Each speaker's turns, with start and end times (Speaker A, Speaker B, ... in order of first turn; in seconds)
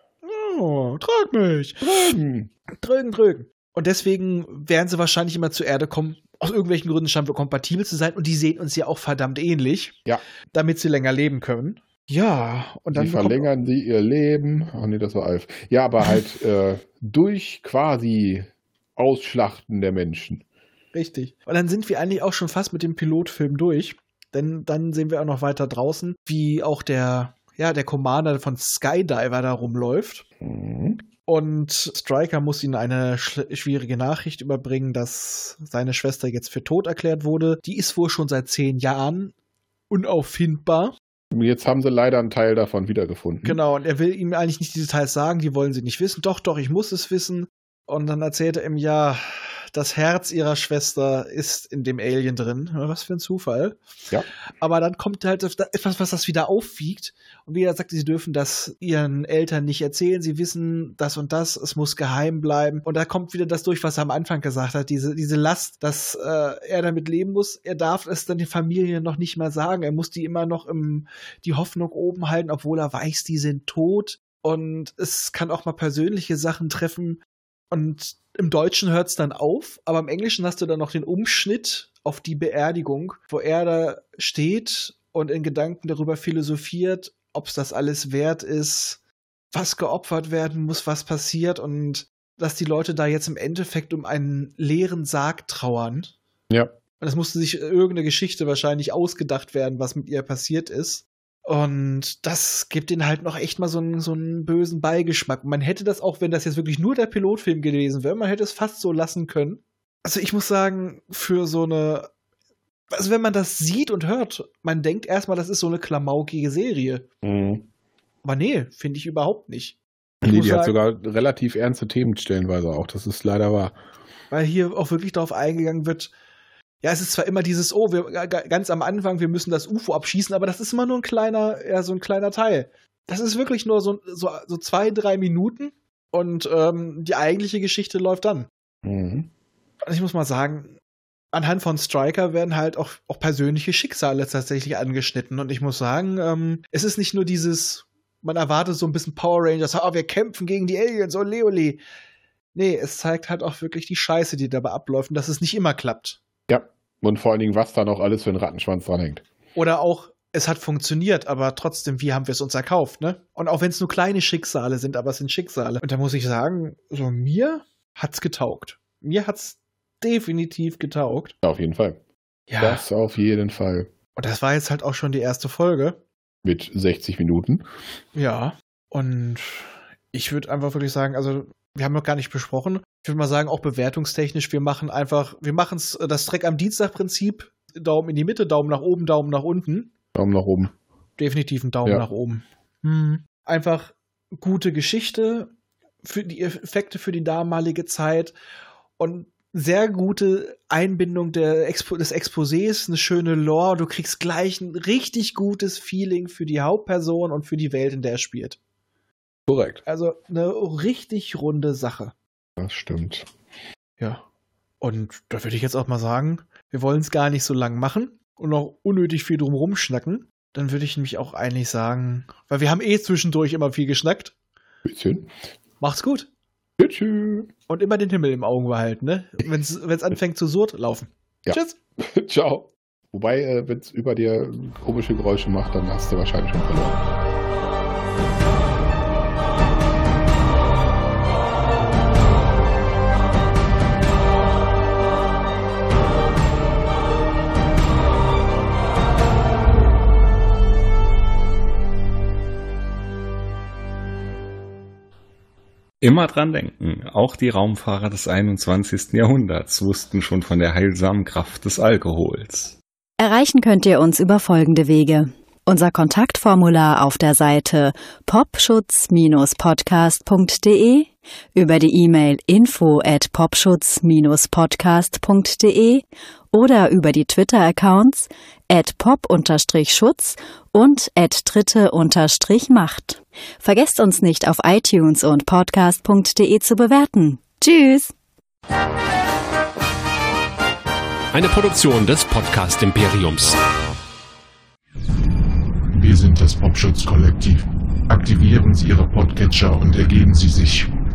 Speaker A: 0.2-2.1, 2.8-10.0, 10.5-13.5, 20.9-30.2, 31.3-39.3, 39.9-40.9, 43.4-53.8, 54.6-77.2, 77.7-89.0, 89.5-96.2, 97.0-112.1, 112.9-117.0, 118.2-120.7, 124.3-126.1, 126.8-138.5, 139.8-140.8, 141.3-151.8, 152.5-156.2, 159.5-171.3, 172.5-172.8, 174.2-176.0, 178.1-189.9, 191.2-195.5, 196.0-198.3, 199.0-208.6, 209.8-212.1, 214.0-214.2, 214.8-224.3, 225.8-226.3, 227.7-231.8
Speaker B: 1.8-2.5, 12.9-20.4, 30.4-31.0, 41.3-43.6, 117.2-117.7, 120.2-123.7, 138.8-139.3, 156.5-159.2, 171.4-172.0, 172.6-173.9, 176.4-177.6, 190.1-190.7, 209.5-209.8, 212.6-213.3, 224.8-225.3, 226.8-227.5, 231.4-237.0
Speaker C: 256.0-262.8
Speaker D: 263.2-288.1
Speaker E: 291.3-293.6
Speaker F: 295.9-300.9